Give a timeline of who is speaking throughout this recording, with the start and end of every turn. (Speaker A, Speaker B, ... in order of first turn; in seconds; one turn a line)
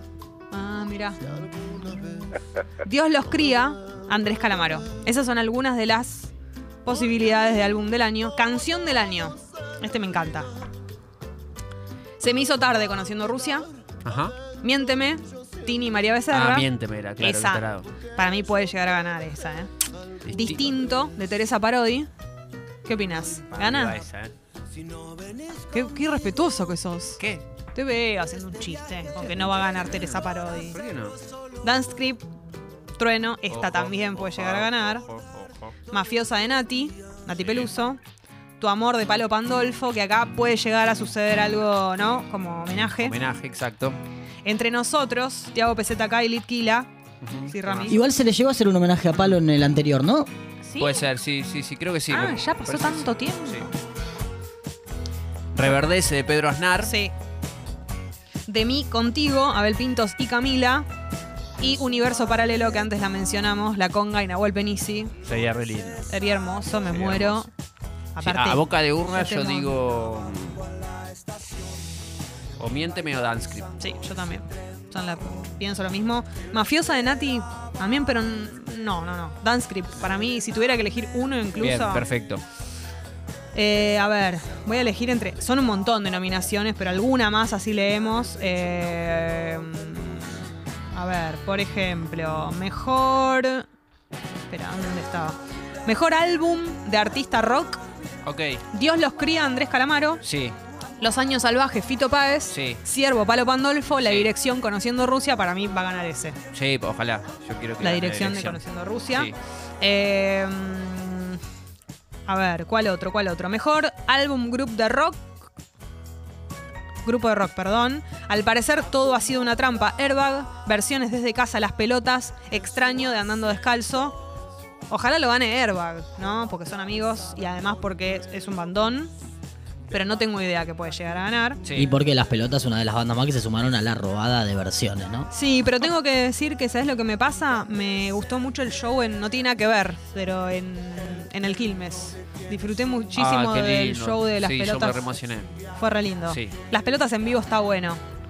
Speaker A: 0.5-1.2
Speaker A: 2.8-6.3
Speaker A: 6.8-10.5
Speaker A: 12.2-13.7
Speaker B: 14.0-14.3
Speaker A: 14.6-16.7
Speaker B: 16.3-17.9
Speaker A: 17.2-19.7
Speaker B: 20.2-20.8
Speaker A: 20.3-22.1
Speaker A: 22.8-24.0
Speaker B: 23.5-24.3
Speaker A: 25.7-27.2
Speaker B: 27.2-27.4
Speaker A: 27.7-30.8
Speaker B: 29.2-31.2
Speaker A: 31.6-32.2
Speaker A: 33.0-35.0
Speaker B: 33.5-35.7
Speaker A: 35.9-38.0
Speaker B: 37.4-37.7
Speaker A: 38.6-43.1
Speaker B: 43.0-44.0
Speaker A: 44.4-46.9
Speaker B: 47.2-47.9
Speaker A: 47.5-48.0
Speaker C: 47.9-50.3
Speaker A: 50.6-51.0
Speaker B: 50.8-53.7
Speaker A: 52.1-53.7
Speaker B: 55.5-56.9
Speaker A: 56.8-57.1
Speaker A: 58.5-60.9
Speaker A: 61.6-65.1
Speaker B: 65.2-66.1
Speaker A: 66.1-67.5
Speaker B: 66.9-67.4
Speaker A: 68.1-69.8
Speaker B: 68.2-70.7
Speaker B: 72.6-73.7
Speaker A: 73.8-82.1
Speaker B: 81.6-82.4
Speaker A: 83.5-93.7
Speaker A: 94.5-97.8
Speaker B: 98.2-98.6
Speaker A: 98.7-100.2
Speaker B: 100.2-100.5
Speaker A: 101.0-106.4
Speaker B: 102.5-102.8
Speaker B: 104.0-104.3
Speaker B: 106.5-109.3
Speaker A: 107.8-111.4
Speaker A: 112.2-115.3
Speaker A: 117.0-124.2
Speaker A: 124.9-129.1
Speaker A: 129.9-131.6
Speaker B: 131.6-131.9
Speaker C: 131.7-135.3
Speaker A: 135.3-145.0
Speaker B: 143.2-145.5
Speaker A: 145.8-148.0
Speaker B: 146.3-146.5